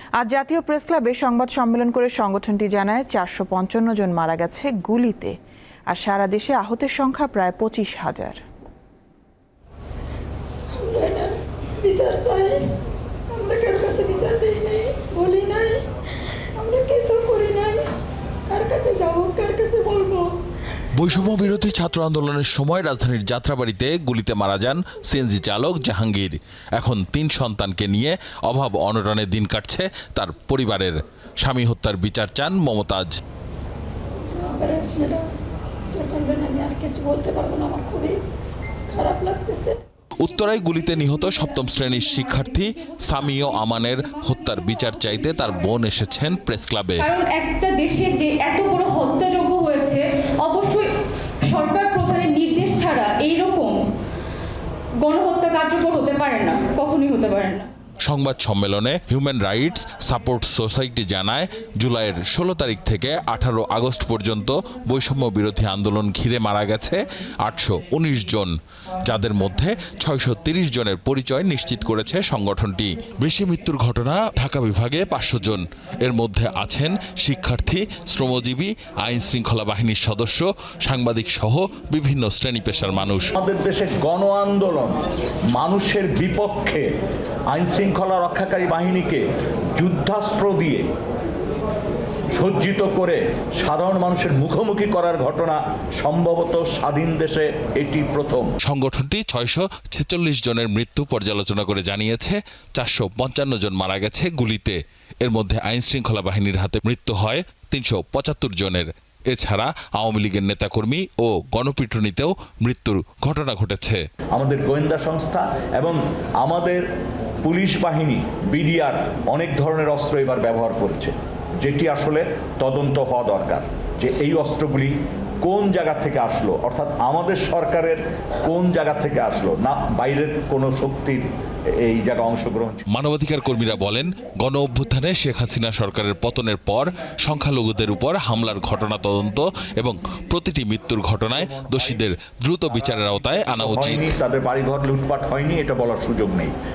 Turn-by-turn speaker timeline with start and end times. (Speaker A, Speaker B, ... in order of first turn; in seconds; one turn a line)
Speaker A: 0.2-5.3
Speaker A: 5.9-8.4
Speaker B: 10.7-12.7
Speaker B: 13.3-15.8
Speaker B: 16.6-17.9
Speaker B: 18.5-20.3
Speaker C: 20.9-33.1
Speaker B: 34.3-35.3
Speaker B: 35.9-38.2
Speaker B: 38.9-39.8
Speaker C: 40.2-47.0
Speaker D: 47.0-50.9
Speaker D: 51.4-53.8
Speaker D: 55.0-57.7
Speaker C: 58.0-68.5
Speaker C: 69.1-83.3
Speaker E: 83.3-85.0
Speaker E: 85.5-86.9
Speaker E: 87.5-89.2
Speaker E: 89.8-90.8
Speaker E: 92.3-98.5
Speaker C: 98.6-114.0
Speaker E: 114.3-116.8
Speaker E: 117.4-131.2
Speaker E: 131.8-132.8
Speaker C: 132.9-144.1
Speaker E: 141.3-142.0
Speaker E: 142.7-143.0
Speaker E: 143.5-146.5